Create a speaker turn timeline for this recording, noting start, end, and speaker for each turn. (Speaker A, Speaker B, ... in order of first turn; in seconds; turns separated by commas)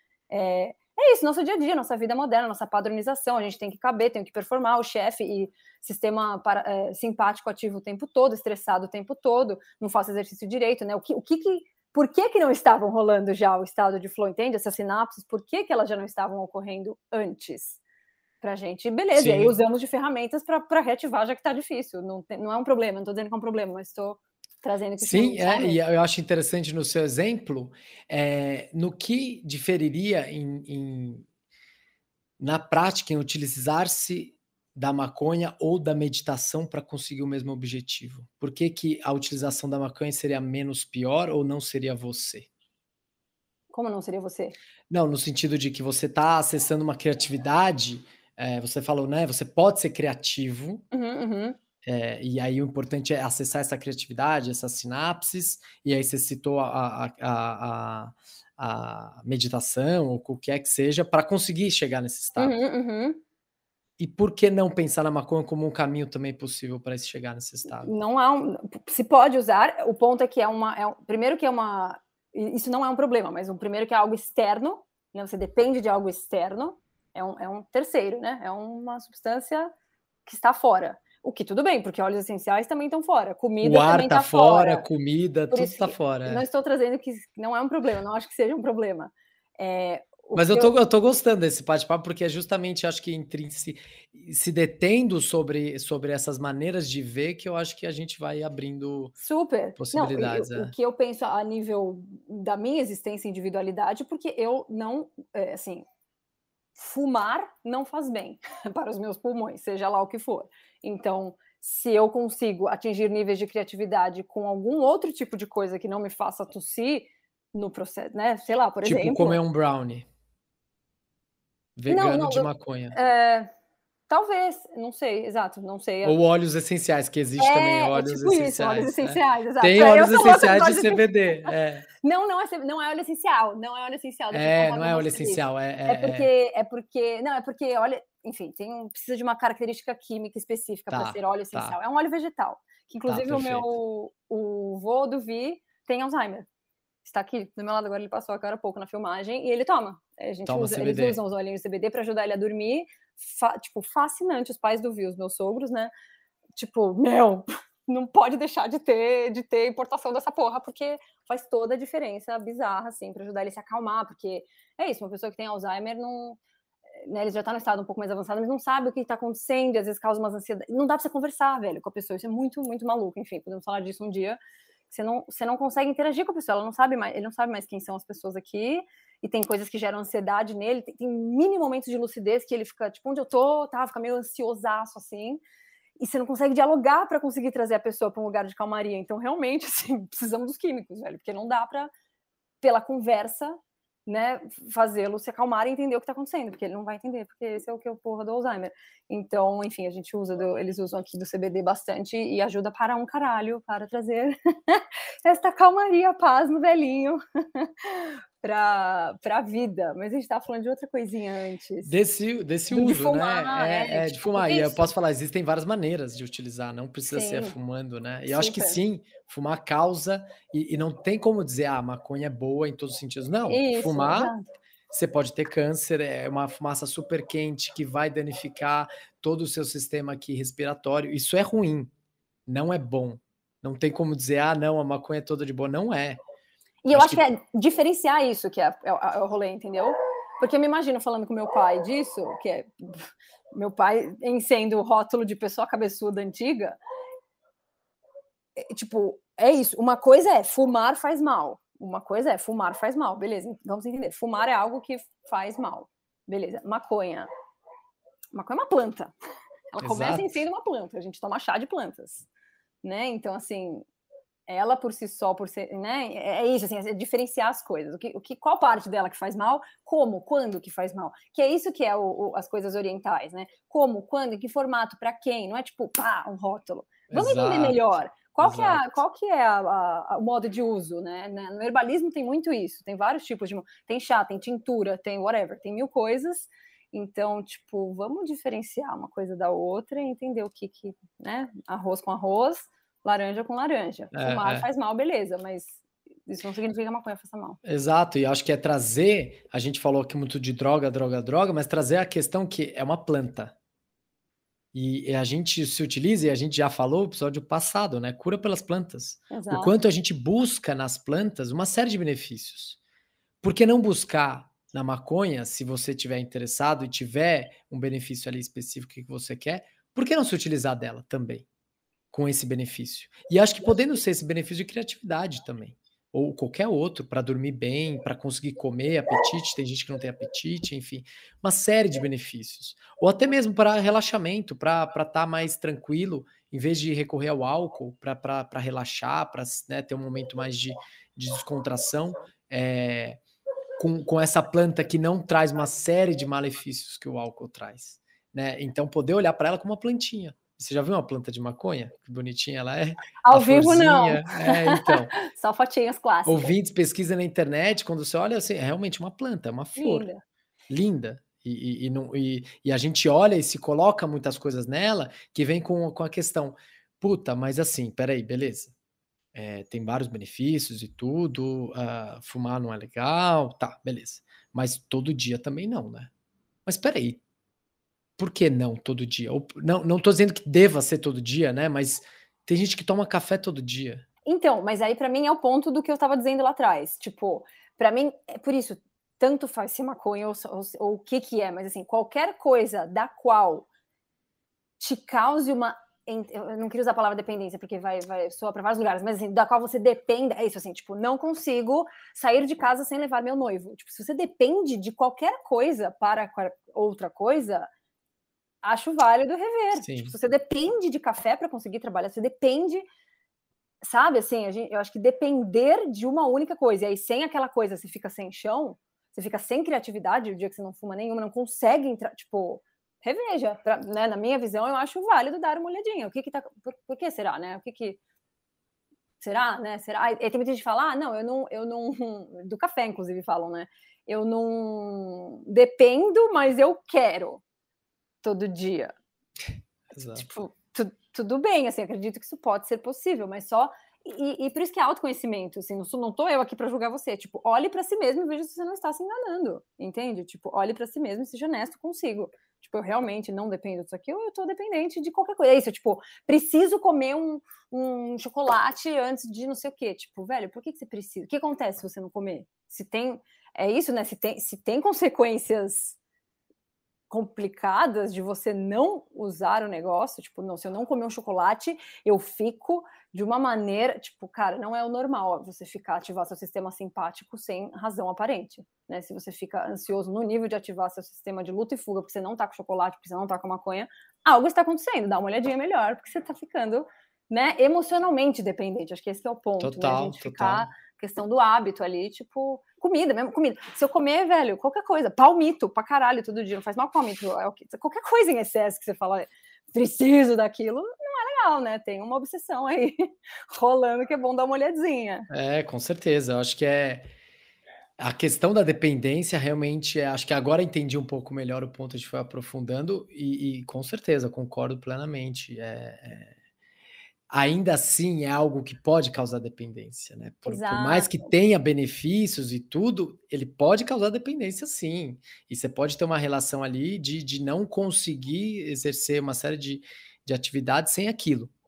Speaker A: 0.3-17.8, Speaker A: 18.4-25.8, Speaker B: 19.1-19.6, Speaker B: 25.0-31.2, Speaker B: 32.4-42.5, Speaker A: 43.7-44.5, Speaker B: 44.9-50.8, Speaker A: 50.9-51.6, Speaker B: 51.8-62.6, Speaker A: 62.4-63.2, Speaker B: 64.0-67.9, Speaker A: 67.8-79.7, Speaker A: 80.2-84.8, Speaker B: 83.6-86.4, Speaker A: 85.5-90.7, Speaker B: 90.3-99.1, Speaker A: 99.2-105.8, Speaker B: 99.8-100.7, Speaker A: 106.8-119.4, Speaker B: 118.8-120.1, Speaker B: 121.8-123.0, Speaker A: 121.9-123.5, Speaker A: 124.1-126.2, Speaker B: 126.0-131.9, Speaker A: 127.4-146.4, Speaker B: 134.3-136.3, Speaker B: 140.9-141.8, Speaker B: 143.1-143.7, Speaker A: 147.0-155.9, Speaker B: 150.4-151.2, Speaker A: 156.6-166.4, Speaker A: 167.0-174.4, Speaker A: 174.9-185.4, Speaker A: 186.0-191.9, Speaker A: 192.6-211.9, Speaker B: 211.8-224.3, Speaker A: 212.7-214.9, Speaker A: 217.1-217.6, Speaker A: 218.3-218.8, Speaker A: 223.4-224.5, Speaker B: 224.9-231.9, Speaker B: 232.5-236.2, Speaker A: 236.8-246.8, Speaker B: 236.9-237.2, Speaker A: 248.6-257.3, Speaker A: 258.3-259.1, Speaker A: 259.7-262.3, Speaker B: 259.8-260.3, Speaker A: 262.8-263.9, Speaker A: 264.5-297.6, Speaker B: 277.1-277.8, Speaker B: 278.4-278.9, Speaker B: 294.1-294.6, Speaker B: 297.6-303.5, Speaker B: 304.7-312.8, Speaker A: 309.3-309.7, Speaker B: 313.4-321.4, Speaker B: 322.1-343.2, Speaker B: 343.8-355.1, Speaker A: 353.2-356.5, Speaker B: 356.2-360.1, Speaker A: 359.8-360.2, Speaker B: 360.7-368.7, Speaker B: 369.3-376.1, Speaker B: 376.6-377.2, Speaker B: 378.2-384.0, Speaker A: 384.2-393.7, Speaker A: 394.8-407.7, Speaker A: 408.6-412.9, Speaker B: 409.8-410.1, Speaker A: 413.8-428.0, Speaker A: 429.2-437.4, Speaker A: 438.2-438.9, Speaker B: 439.9-440.2, Speaker A: 440.1-465.9, Speaker A: 467.1-505.3, Speaker B: 489.6-490.7, Speaker B: 505.3-507.1, Speaker B: 508.0-516.3, Speaker B: 517.3-531.5, Speaker A: 520.5-521.3